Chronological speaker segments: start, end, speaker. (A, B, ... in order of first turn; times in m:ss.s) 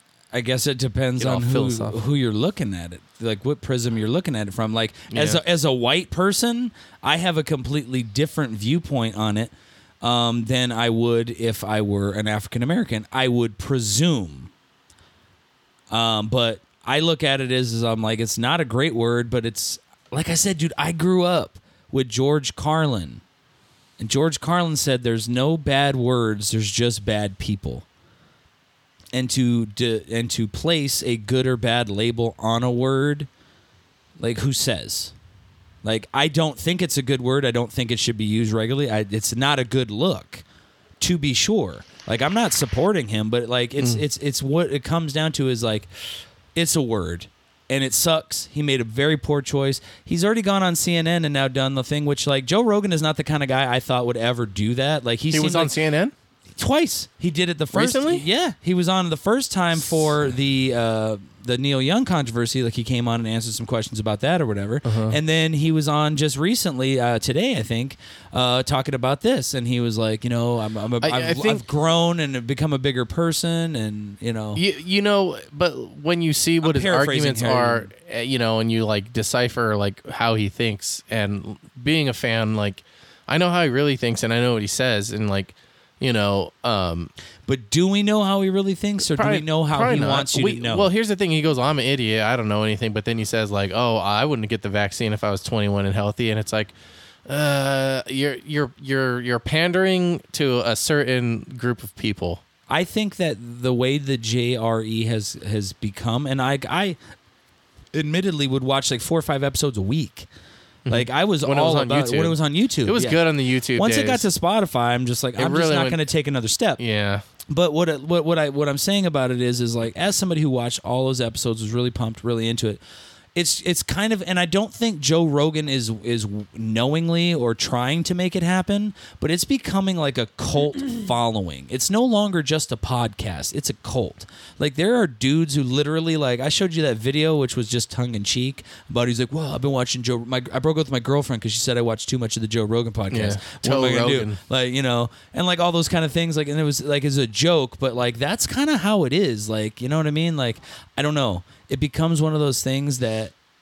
0:00.3-0:14.5 A
0:01.2-0:02.0 B
0:05.1-0:05.4 B
0:15.9-0:23.2 A
0:24.0-0:27.8 A
0:29.1-0:33.3 A
0:34.2-0:35.1 A
0:35.8-0:40.4 A
0:41.0-0:45.9 A
0:46.6-0:55.8 A
0:55.3-0:56.1 B
0:56.6-1:14.6 A
0:57.7-0:58.2 B
1:04.8-1:05.2 B
1:11.0-1:11.6 B
1:14.6-1:27.1 B
1:16.6-1:17.9 A
1:27.5-1:30.9 A
1:29.1-1:36.7 B
1:37.3-1:42.4 B
1:42.7-1:47.0 A
1:47.9-1:50.3 A
1:50.9-1:54.3 B
1:50.9-1:53.2 A
1:53.8-1:56.8 A
1:55.4-1:56.0 B
1:56.8-1:57.2 B
1:57.5-2:02.8 A
2:03.4-2:33.3 A
2:23.1-2:24.4 B